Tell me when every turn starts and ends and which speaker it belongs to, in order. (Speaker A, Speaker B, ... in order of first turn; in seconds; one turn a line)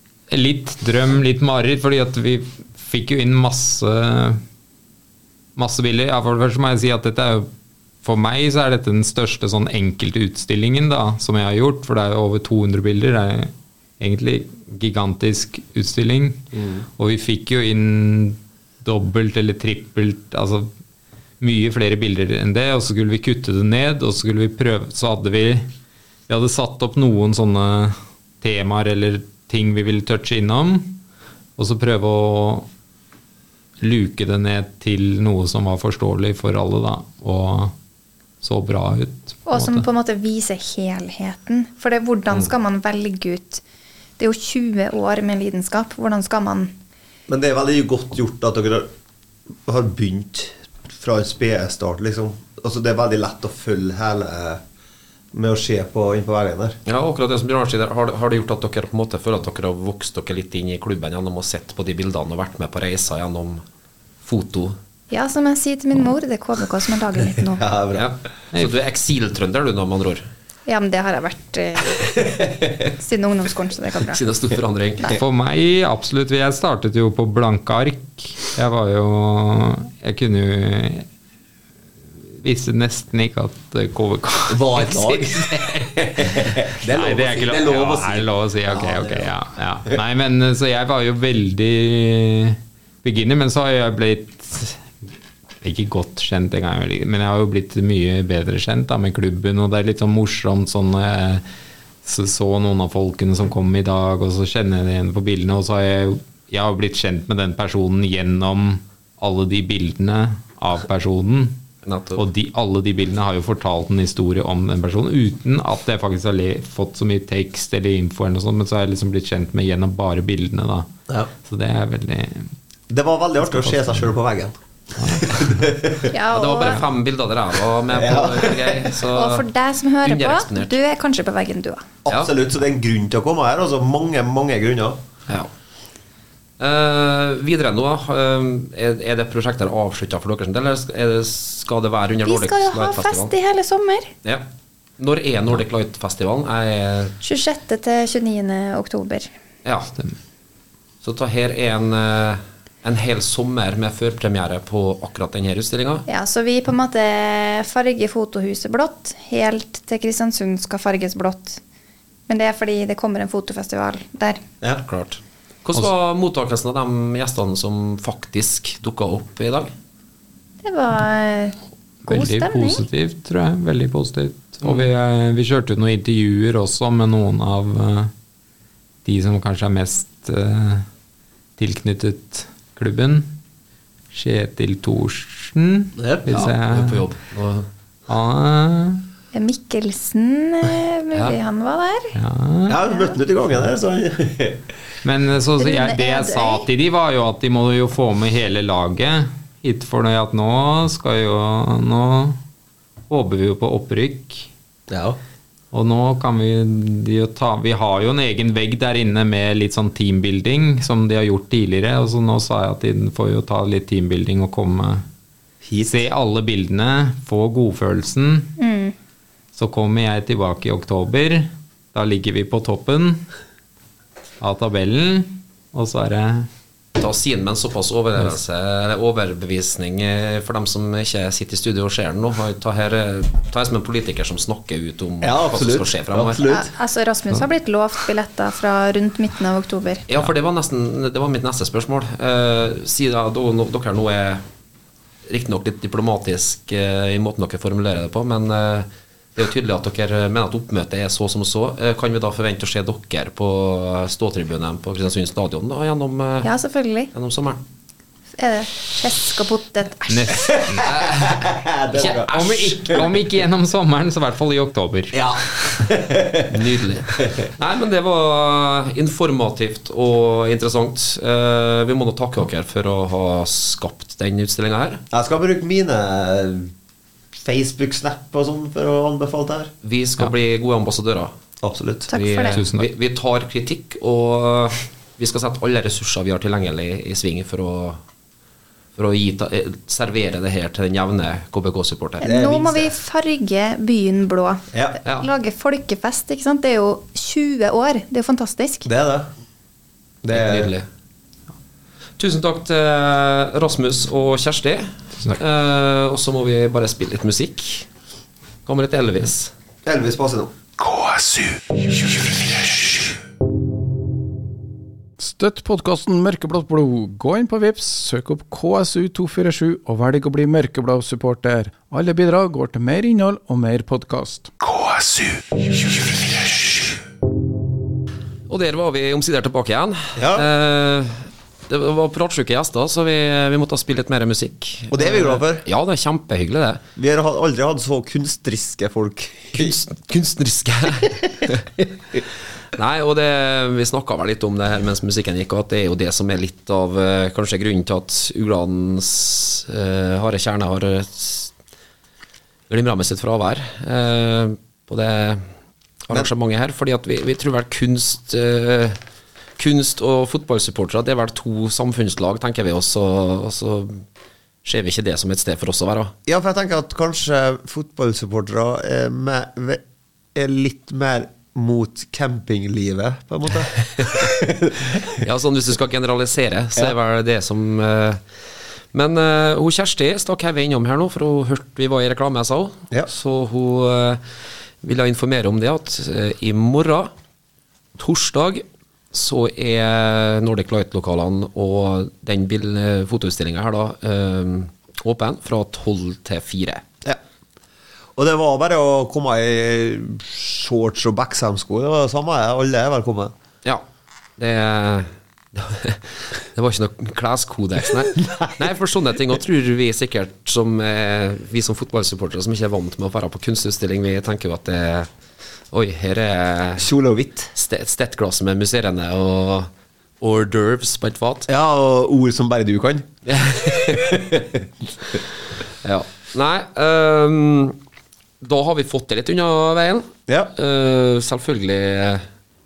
Speaker A: 0.3-4.4
Speaker A: 5.5-7.5
Speaker A: 8.0-16.4
Speaker B: 16.6-16.8
Speaker A: 17.0-20.7
Speaker A: 21.4-25.7
Speaker A: 26.3-31.0
Speaker A: 31.6-32.7
Speaker A: 33.8-37.7
Speaker A: 38.4-39.9
Speaker C: 39.5-43.6
Speaker C: 44.2-46.7
Speaker B: 47.3-48.9
Speaker B: 49.6-54.6
Speaker B: 55.3-56.8
Speaker D: 56.9-63.6
Speaker D: 64.2-64.8
Speaker C: 65.1-67.6
Speaker B: 67.5-68.1
Speaker D: 67.9-70.2
Speaker C: 70.7-72.3
Speaker B: 72.2-72.7
Speaker C: 72.8-74.2
Speaker D: 74.1-75.2
Speaker A: 75.1-81.0
Speaker A: 82.3-84.8
Speaker B: 84.5-89.3
Speaker A: 86.8-94.9
Speaker A: 95.6-101.4
Speaker A: 102.0-111.6
Speaker D: 111.8-112.2
Speaker A: 112.2-120.9
Speaker A: 121.4-122.5
Speaker B: 122.9-126.1
Speaker A: 123.5-124.1
Speaker A: 125.0-125.5
Speaker C: 126.1-126.8
Speaker D: 126.3-129.5
Speaker B: 127.9-128.9
Speaker C: 129.1-131.8
Speaker D: 130.0-130.7
Speaker B: 132.1-135.0
Speaker D: 136.6-143.3
Speaker C: 142.2-144.1
Speaker D: 145.0-147.1
Speaker C: 147.2-149.3
Speaker D: 149.6-149.9
Speaker D: 151.0-156.1
Speaker C: 156.1-161.6
Speaker C: 162.3-164.4
Speaker D: 164.6-169.7
Speaker C: 170.6-172.8
Speaker A: 172.0-178.1
Speaker A: 179.0-180.8
Speaker A: 181.6-183.3
Speaker A: 184.1-187.1
Speaker B: 186.0-186.2
Speaker D: 186.3-187.7
Speaker A: 188.1-189.0
Speaker C: 189.3-192.2
Speaker A: 192.1-192.8
Speaker B: 192.7-194.7
Speaker C: 192.8-193.2
Speaker A: 195.0-202.4
Speaker C: 195.6-196.7
Speaker A: 203.1-204.5
Speaker B: 204.9-205.2
Speaker A: 205.7-215.0
Speaker B: 215.6-216.1
Speaker A: 215.8-218.5
Speaker C: 218.6-218.9
Speaker A: 219.5-223.2
Speaker A: 224.4-226.5
Speaker D: 227.0-236.4
Speaker B: 235.2-236.7
Speaker C: 236.4-240.1
Speaker D: 240.1-244.4
Speaker D: 245.3-256.5
Speaker C: 256.4-257.1
Speaker D: 257.1-257.6
Speaker C: 258.4-260.6
Speaker A: 260.1-260.9
Speaker B: 260.3-263.1
Speaker D: 260.8-263.2
Speaker A: 262.3-265.2
Speaker B: 265.1-267.4
Speaker D: 266.5-275.0
Speaker B: 275.1-276.7
Speaker B: 277.3-279.7
Speaker D: 279.8-281.3
Speaker B: 281.6-282.1
Speaker C: 282.1-282.6
Speaker D: 282.1-288.0
Speaker A: 282.5-282.9
Speaker D: 288.9-292.3
Speaker B: 292.2-292.9
Speaker C: 292.2-298.9
Speaker B: 294.7-295.0
Speaker B: 298.8-299.3
Speaker B: 300.2-300.7
Speaker D: 300.3-300.9
Speaker D: 302.2-307.9
Speaker D: 308.6-309.5
Speaker B: 309.8-310.5
Speaker E: 315.2-324.5
Speaker B: 324.7-325.4
Speaker D: 328.5-336.8
Speaker B: 330.1-330.5
Speaker B: 334.9-335.6
Speaker B: 336.9-339.8
Speaker D: 339.5-341.7
Speaker D: 342.7-351.5
Speaker D: 352.7-355.4
Speaker D: 356.1-359.0
Speaker D: 359.6-364.0
Speaker D: 364.6-366.1
Speaker B: 366.2-369.8
Speaker B: 370.3-375.2
Speaker D: 374.0-374.2
Speaker D: 375.1-378.2
Speaker D: 378.9-384.2
Speaker D: 384.8-387.1
Speaker D: 388.0-396.8
Speaker B: 398.1-403.3
Speaker D: 404.4-415.1
Speaker B: 408.2-408.5
Speaker D: 415.7-416.9
Speaker B: 416.8-417.5
Speaker D: 417.5-419.7
Speaker D: 420.2-421.5
Speaker B: 421.5-423.1
Speaker D: 423.2-424.4
Speaker B: 423.8-424.6
Speaker D: 425.8-427.8
Speaker D: 428.4-432.2
Speaker B: 430.3-430.5